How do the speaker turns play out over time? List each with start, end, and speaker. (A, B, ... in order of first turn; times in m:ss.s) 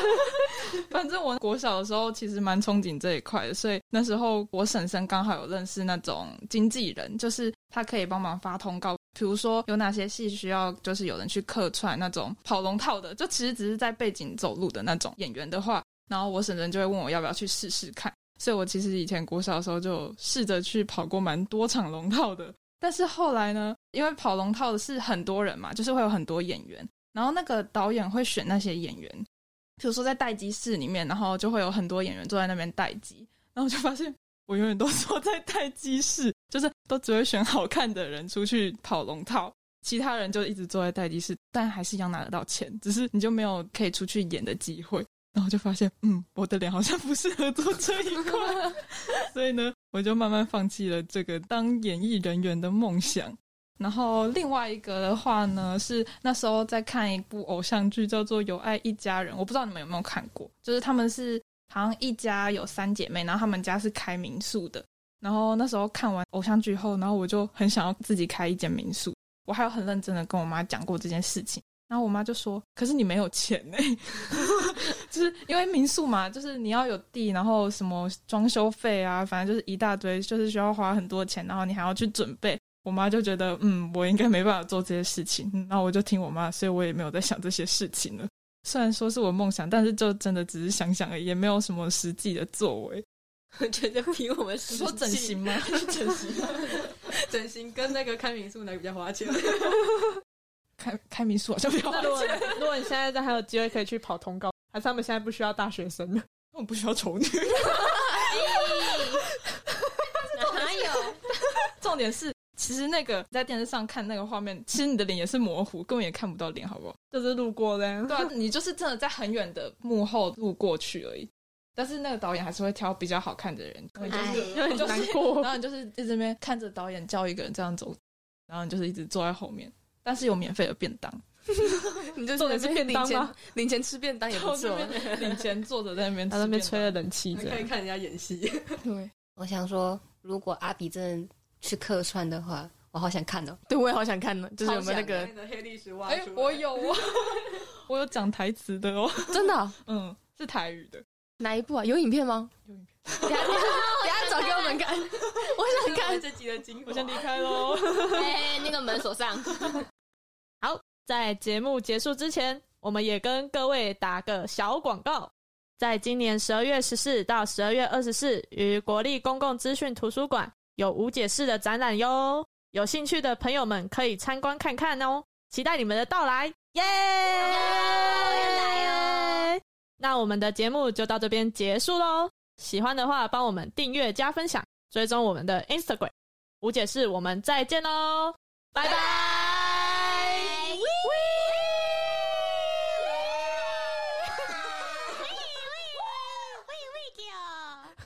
0:00.7-0:29.2 A
0:29.8-0:48.8 A
0:49.3-1:33.1 A
1:33.6-1:35.0 B
1:34.7-1:36.8 A
1:34.8-1:39.9 C
1:40.8-1:42.6 A
1:41.9-1:46.2 D
1:46.5-1:48.6 A
1:48.3-1:49.2 B
1:50.3-1:51.2 B
1:51.8-1:57.0 A
1:57.1-1:58.3 D
1:58.1-2:08.0 A
2:04.1-2:04.6 B
2:04.2-2:05.6 D
2:08.5-2:12.0 A
2:12.1-2:15.2 E
2:12.4-2:13.3 D
2:14.3-2:17.0 A
2:16.3-2:17.7 D
2:17.3-2:18.8 C
2:18.8-2:19.1 A
2:19.4-2:23.6 B
2:23.7-2:25.3 E
2:24.6-2:26.9 C
2:26.1-2:31.0 A
2:29.3-2:29.8 E
2:31.4-2:32.5 E
2:32.7-2:33.8 A
2:33.3-2:36.3 E
2:33.4-2:34.9 B
2:35.4-2:37.7 C
2:36.8-2:38.8 A
2:38.1-2:39.8 B
2:40.6-3:11.8 D
2:57.4-2:59.5 B
3:08.8-3:11.8 B
3:13.1-3:13.7 B
3:14.8-3:17.9 B